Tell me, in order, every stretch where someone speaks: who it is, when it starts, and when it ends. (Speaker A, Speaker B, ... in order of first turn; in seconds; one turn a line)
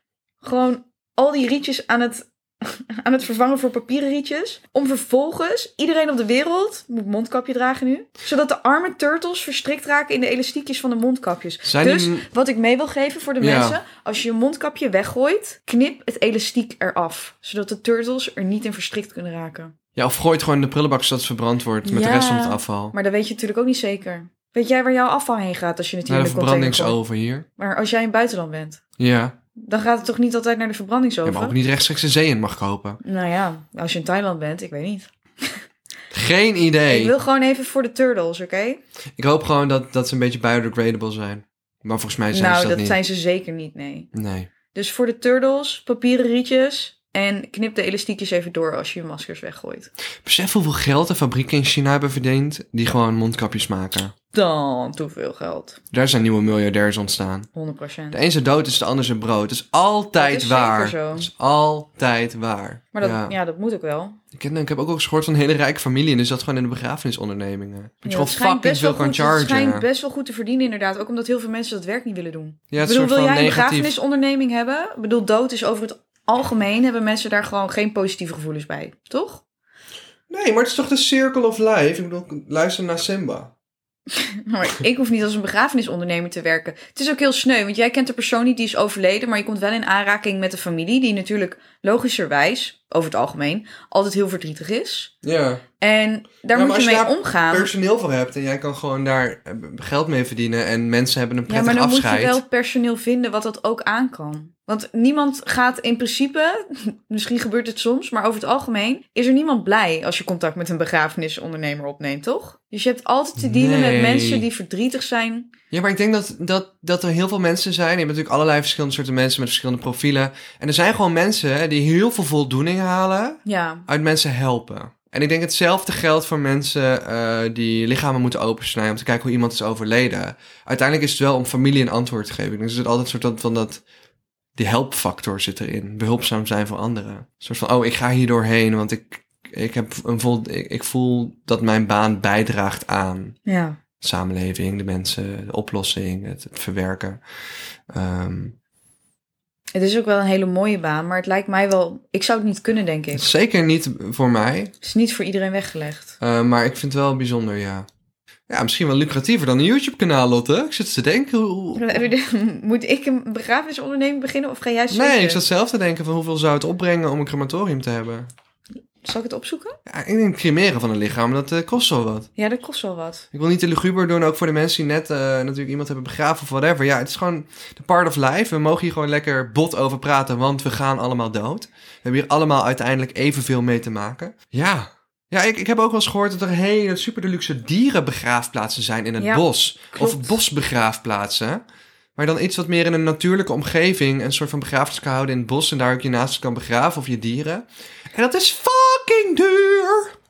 Speaker A: 0.4-19.7
Speaker B: 11.6-12.2
Speaker B: 13.4-13.8
Speaker B: 19.9-22.9
Speaker A: 21.8-27.0
Speaker B: 26.1-27.4
Speaker A: 27.6-28.8
Speaker B: 29.0-29.4
Speaker A: 29.6-31.5
Speaker B: 31.2-33.0
Speaker A: 33.0-35.6
Speaker B: 36.1-37.1
Speaker A: 36.9-38.8
Speaker B: 39.2-43.0
Speaker A: 42.3-44.1
Speaker B: 44.1-44.5
Speaker A: 44.7-49.9
Speaker B: 50.2-54.1
Speaker A: 54.3-55.8
Speaker B: 55.9-57.5
Speaker A: 57.5-58.2
Speaker B: 58.1-63.3
Speaker A: 60.2-61.3
Speaker A: 62.9-64.2
Speaker B: 64.3-69.8
Speaker A: 68.0-79.4
Speaker B: 72.7-73.9
Speaker B: 80.3-83.5
Speaker A: 84.1-95.1
Speaker B: 95.2-95.6
Speaker A: 95.8-97.7
Speaker B: 96.5-102.4
Speaker A: 101.5-115.5
Speaker B: 113.4-114.5
Speaker B: 115.7-133.8
Speaker A: 123.4-123.8
Speaker B: 134.6-143.3
Speaker A: 143.4-143.8
Speaker B: 144.0-147.2
Speaker B: 147.9-148.5
Speaker A: 149.7-153.2
Speaker B: 153.1-154.7
Speaker A: 154.8-156.2
Speaker B: 156.2-157.9
Speaker B: 158.5-162.1
Speaker A: 161.8-165.4
Speaker B: 164.9-168.3
Speaker A: 169.0-169.8
Speaker B: 169.8-172.3
Speaker A: 172.4-173.2
Speaker B: 173.3-191.6
Speaker A: 189.2-190.4
Speaker B: 192.2-200.1